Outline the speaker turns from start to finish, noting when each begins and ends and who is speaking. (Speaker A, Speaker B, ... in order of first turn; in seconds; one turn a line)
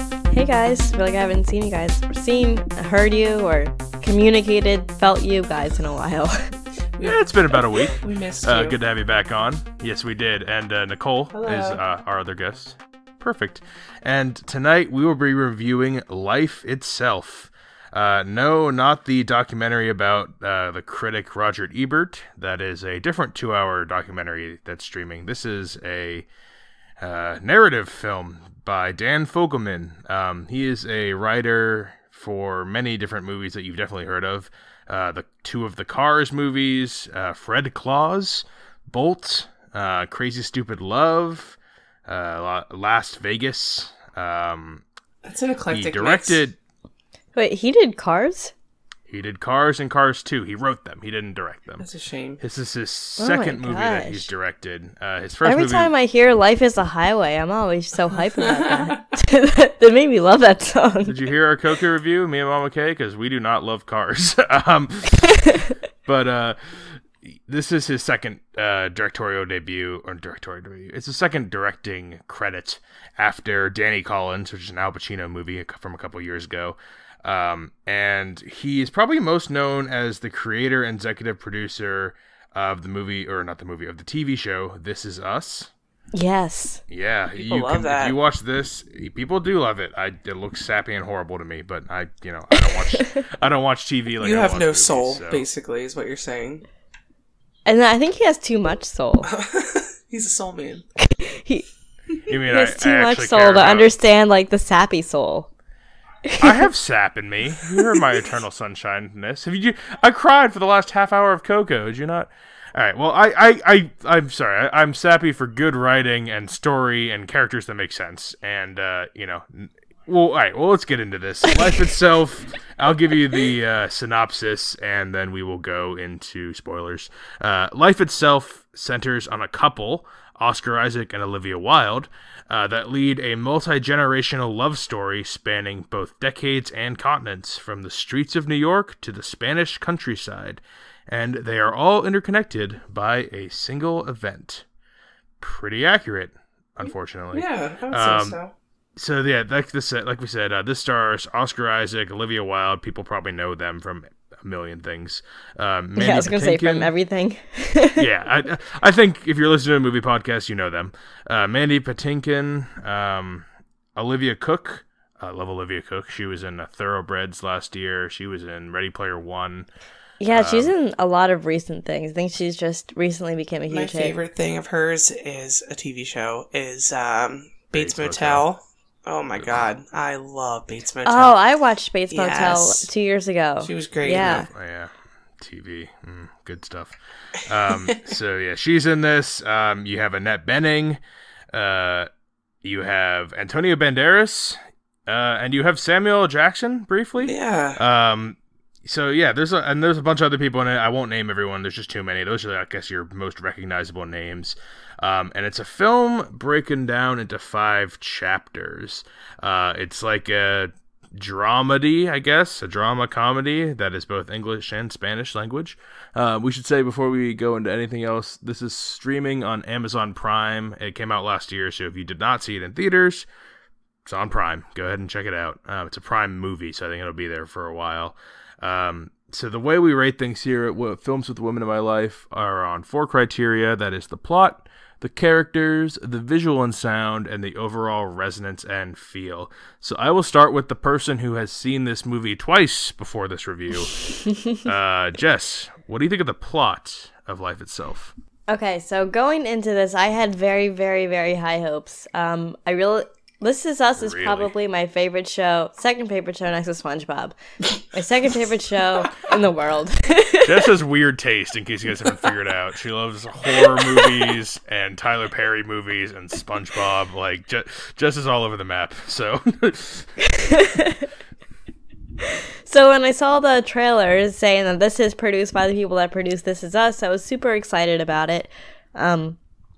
Speaker A: 0.3-6.4
Speaker B: 7.0-8.8
Speaker C: 7.0-26.3
Speaker B: 11.3-11.8
Speaker C: 27.0-44.8
Speaker B: 45.2-46.4
Speaker C: 45.7-46.6
Speaker A: 47.4-48.5
Speaker C: 49.1-51.9
Speaker B: 51.8-52.4
Speaker C: 52.4-55.9
Speaker A: 53.2-54.3
Speaker A: 55.4-61.1
Speaker B: 58.2-59.0
Speaker C: 61.1-85.7
Speaker A: 86.1-86.8
Speaker C: 86.9-95.5
Speaker B: 87.4-88.2
Speaker A: 92.5-93.2
Speaker B: 94.2-96.6
Speaker A: 97.7-99.3
Speaker B: 99.3-100.8
Speaker A: 101.0-101.7
Speaker C: 102.3-103.9
Speaker A: 102.5-105.5
Speaker A: 106.3-106.5
Speaker C: 106.4-144.7
Speaker C: 145.4-148.4
Speaker B: 146.8-148.5
Speaker C: 149.0-156.9
Speaker A: 156.0-158.0
Speaker C: 158.0-163.4
Speaker C: 164.0-169.7
Speaker A: 170.2-174.2
Speaker C: 170.3-170.7
Speaker B: 173.7-181.3
Speaker C: 177.7-178.4
Speaker C: 179.4-179.7
Speaker A: 181.1-184.4
Speaker B: 182.1-182.9
Speaker B: 183.6-184.5
Speaker C: 184.2-191.0
Speaker C: 191.5-192.1
Speaker C: 192.6-223.3
Speaker B: 197.2-197.8
Speaker C: 224.1-248.1
Speaker A: 244.3-244.6
Speaker A: 248.5-257.4
Speaker C: 254.0-254.5
Speaker A: 257.9-260.6
Speaker C: 260.4-270.1
Speaker A: 270.2-271.1
Speaker A: 272.6-279.4